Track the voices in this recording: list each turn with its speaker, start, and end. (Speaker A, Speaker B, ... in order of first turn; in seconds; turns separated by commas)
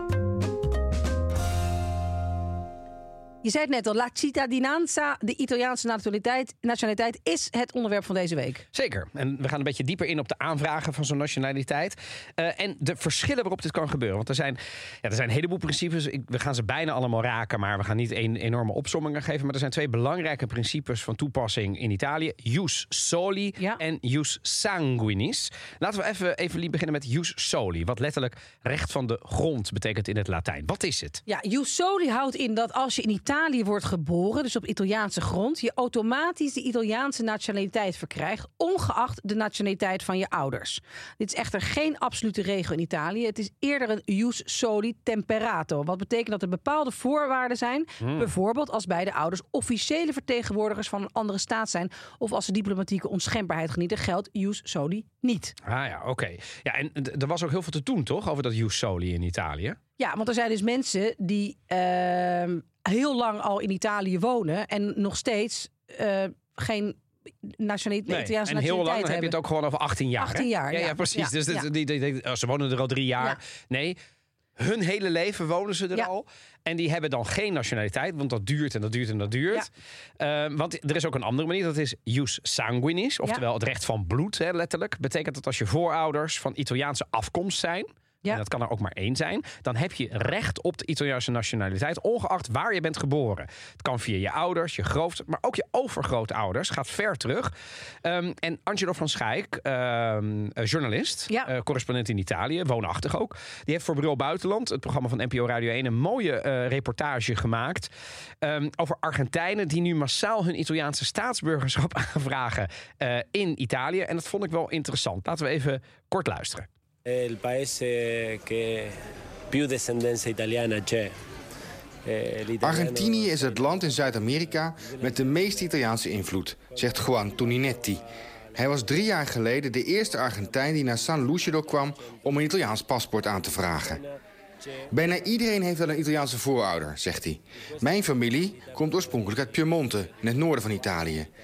Speaker A: 3.4-8.6, Speaker B: 8.7-31.2, Speaker A: 31.3-55.5, Speaker B: 48.0-48.3, Speaker B: 55.6-59.8, Speaker A: 60.0-69.3, Speaker B: 68.1-74.0, Speaker A: 70.2-71.7, Speaker B: 74.6-79.7, Speaker B: 80.2-97.5, Speaker B: 98.0-107.9, Speaker B: 108.4-116.7, Speaker C: 117.0-121.1, Speaker C: 122.0-123.9, Speaker D: 122.6-128.0, Speaker C: 124.9-125.3, Speaker D: 128.6-134.0, Speaker D: 134.9-141.3, Speaker C: 138.5-139.4